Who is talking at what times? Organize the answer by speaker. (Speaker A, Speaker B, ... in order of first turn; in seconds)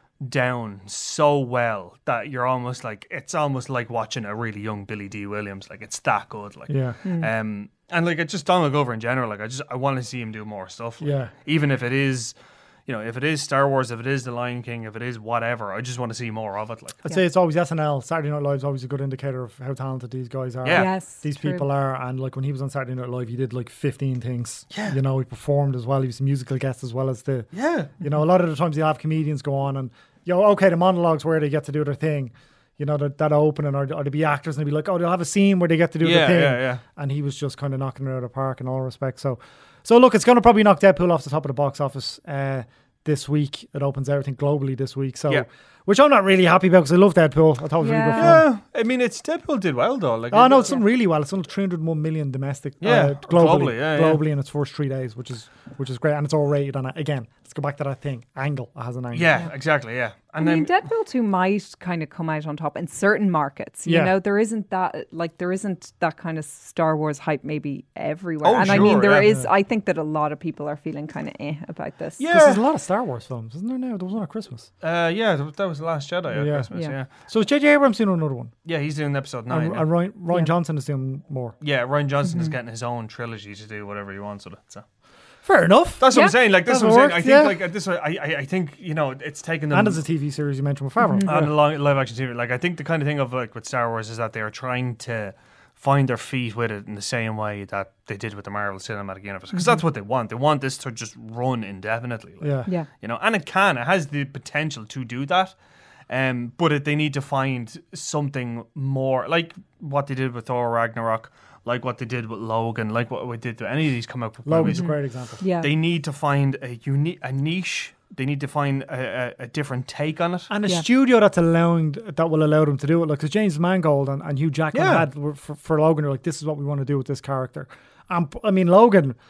Speaker A: 0.2-12.3, 12.9-17.0, 24.7-25.0, 27.5-27.9, 36.0-36.8, 48.2-50.8, 52.8-54.2, 59.1-60.8, 68.4-69.4, 72.2-72.6, 74.8-77.1, 78.7-79.9, 81.6-84.8, 86.0-90.0, 91.3-105.5, 106.1-114.9, 115.6-120.5, 124.7-125.1
Speaker B: 6.7-7.0, 11.0-11.3, 17.1-27.5, 28.0-48.5, 50.3-59.3, 63.9-64.1, 68.6-69.5, 72.3-74.7, 76.3-78.5, 79.5-81.5, 85.5-87.6, 89.7-91.5, 102.4-102.7, 114.5-115.4, 120.5-129.2
Speaker C: 7.0-7.3, 20.8-21.7, 47.8-48.4, 60.4-72.2, 82.2-82.5, 91.0-91.3, 114.7-115.7